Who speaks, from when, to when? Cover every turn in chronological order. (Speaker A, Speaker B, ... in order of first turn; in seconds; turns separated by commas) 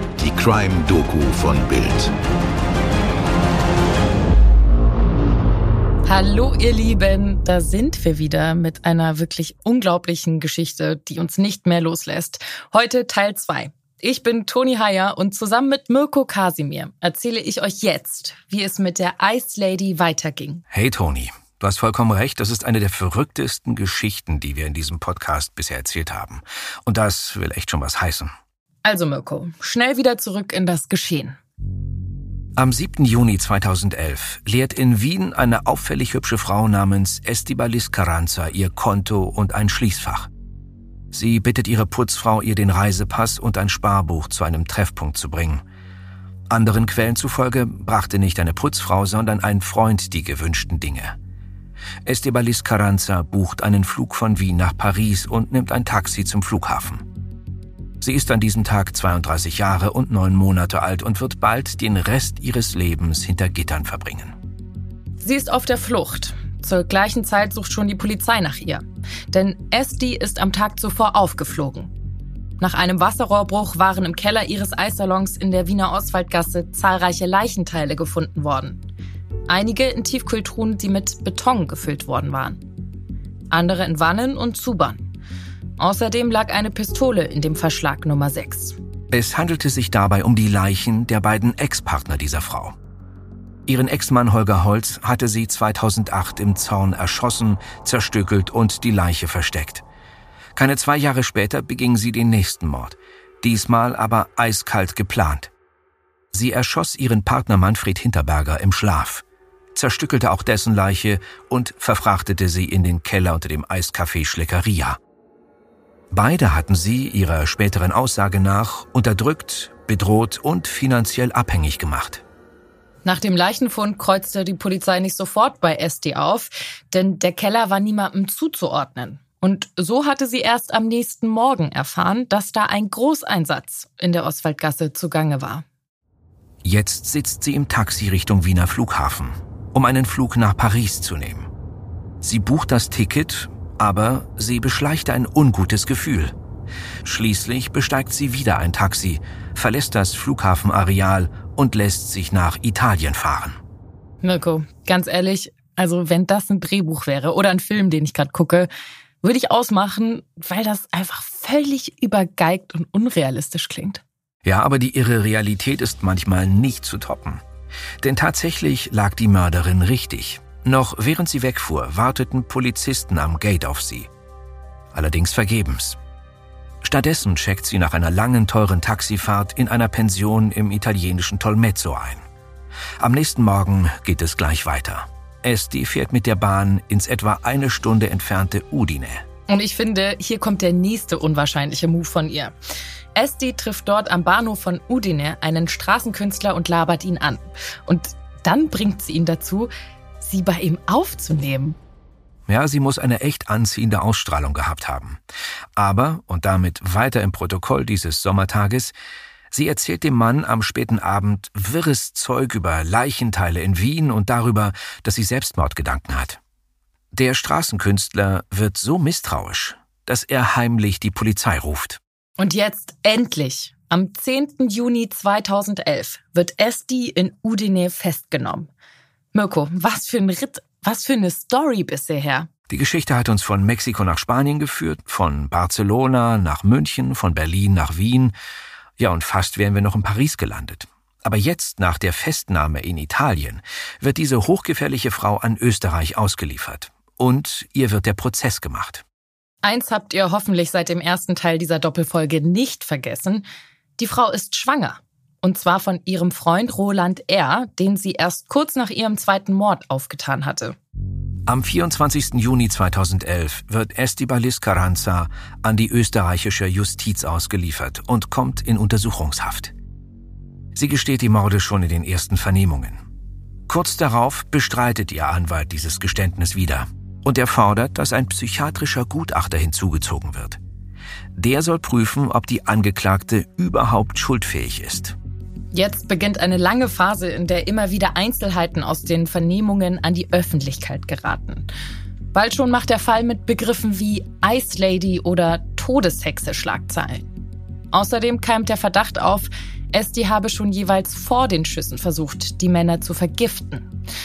Speaker A: 0.2-2.1, Speaker B: 6.1-20.6, Speaker C: 20.7-28.3, Speaker B: 28.9-31.4, Speaker C: 32.6-40.3, Speaker C: 41.1-45.6, Speaker C: 46.5-51.1, Speaker C: 52.0-57.0, Speaker C: 58.0-64.3, Speaker B: 65.2-71.9, Speaker B: 72.6-78.8, Speaker B: 79.5-82.6, Speaker B: 83.5-85.1, Speaker B: 85.8-88.8, Speaker C: 89.1-92.8, Speaker C: 93.7-99.8, Speaker C: 100.6-105.5, Speaker C: 106.3-109.2, Speaker C: 109.8-115.0, Speaker C: 116.1-122.2, Speaker B: 123.0-135.7, Speaker C: 136.6-141.5, Speaker C: 142.2-146.3, Speaker C: 147.0-153.6, Speaker B: 154.2-158.7, Speaker B: 159.2-164.0, Speaker C: 164.4-167.4, Speaker C: 168.0-174.1, Speaker C: 174.9-176.0, Speaker C: 176.8-182.2, Speaker C: 183.0-189.2, Speaker B: 189.5-192.5, Speaker B: 193.2-201.8, Speaker C: 202.5-205.2, Speaker C: 205.8-208.9, Speaker C: 209.5-216.4, Speaker C: 217.1-222.0, Speaker B: 222.4-228.7, Speaker B: 229.3-232.5, Speaker C: 232.7-238.3, Speaker C: 239.0-249.0, Speaker B: 249.6-253.4, Speaker B: 254.0-260.8, Speaker C: 261.5-269.7, Speaker C: 270.8-273.0, Speaker C: 273.7-280.6, Speaker C: 281.4-285.1, Speaker B: 285.7-291.7, Speaker B: 292.3-297.3, Speaker B: 297.9-303.9